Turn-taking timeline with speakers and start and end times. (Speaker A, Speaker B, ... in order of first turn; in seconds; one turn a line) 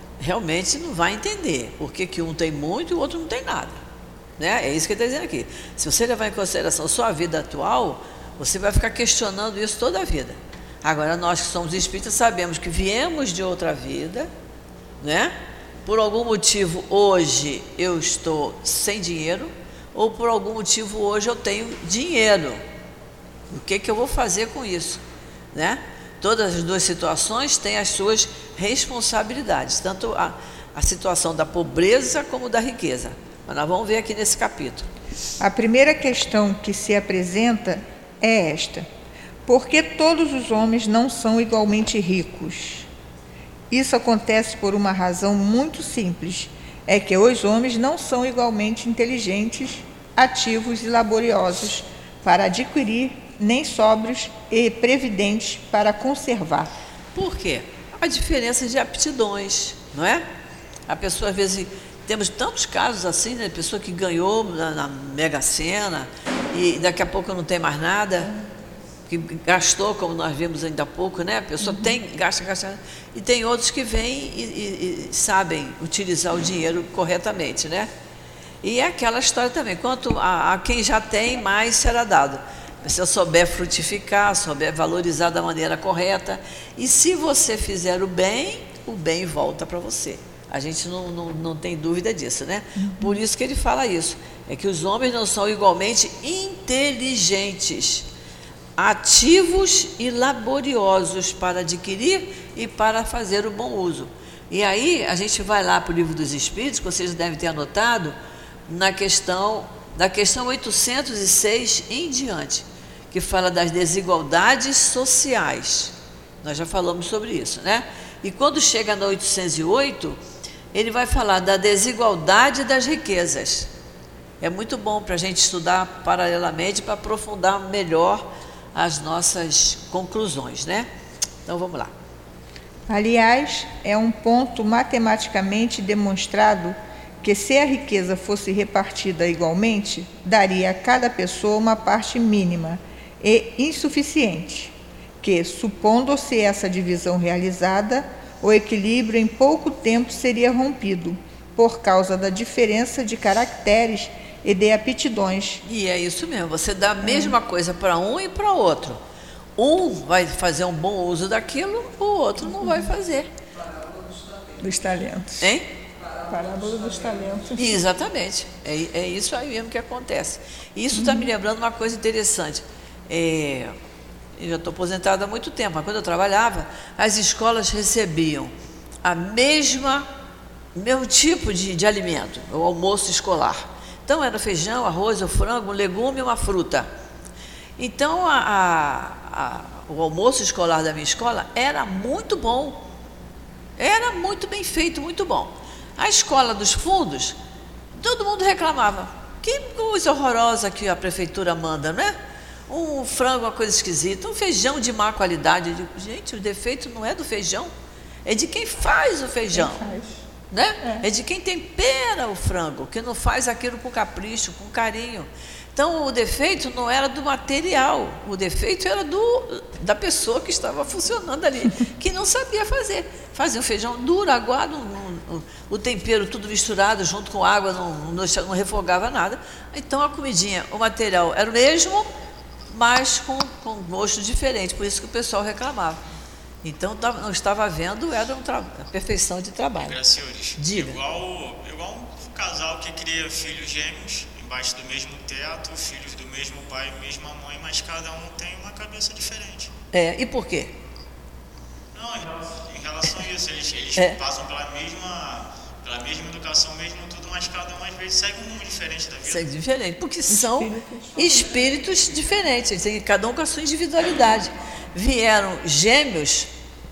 Speaker A: 0.2-3.8
Speaker A: 4.4-14.3
Speaker A: 15.0-22.6
Speaker A: 23.5-25.0
Speaker A: 25.5-34.9
Speaker B: 35.4-38.9
Speaker B: 39.5-42.9
Speaker B: 43.7-56.7
Speaker A: 57.1-60.2
Speaker A: 60.9-68.3
Speaker A: 69.1-77.9
Speaker B: 71.6-71.9
Speaker A: 78.6-98.0
Speaker B: 92.8-93.1
Speaker A: 98.8-108.2
Speaker A: 108.7-120.2
Speaker A: 120.7-123.7
Speaker A: 124.4-130.9
Speaker A: 131.4-131.9
Speaker B: 132.9-155.6
Speaker A: 155.6-159.0
Speaker B: 157.0-157.3
Speaker A: 159.6-163.3
Speaker B: 164.6-165.5
Speaker A: 165.4-165.7
Speaker B: 166.2-167.7
Speaker A: 167.6-173.7
Speaker B: 170.9-171.3
Speaker A: 174.4-180.1
Speaker A: 180.7-186.9
Speaker A: 187.8-192.8
Speaker A: 193.8-197.3
Speaker A: 197.9-202.2
Speaker A: 202.7-207.7
Speaker A: 208.2-209.8
Speaker B: 209.5-210.2
Speaker A: 210.5-232.1
Speaker A: 232.7-236.0
Speaker A: 236.6-240.0
Speaker C: 239.8-249.7
Speaker A: 240.6-241.0
Speaker A: 249.9-250.7
Speaker C: 251.9-259.4
Speaker A: 253.9-254.2
Speaker A: 259.2-266.5
Speaker B: 260.3-261.3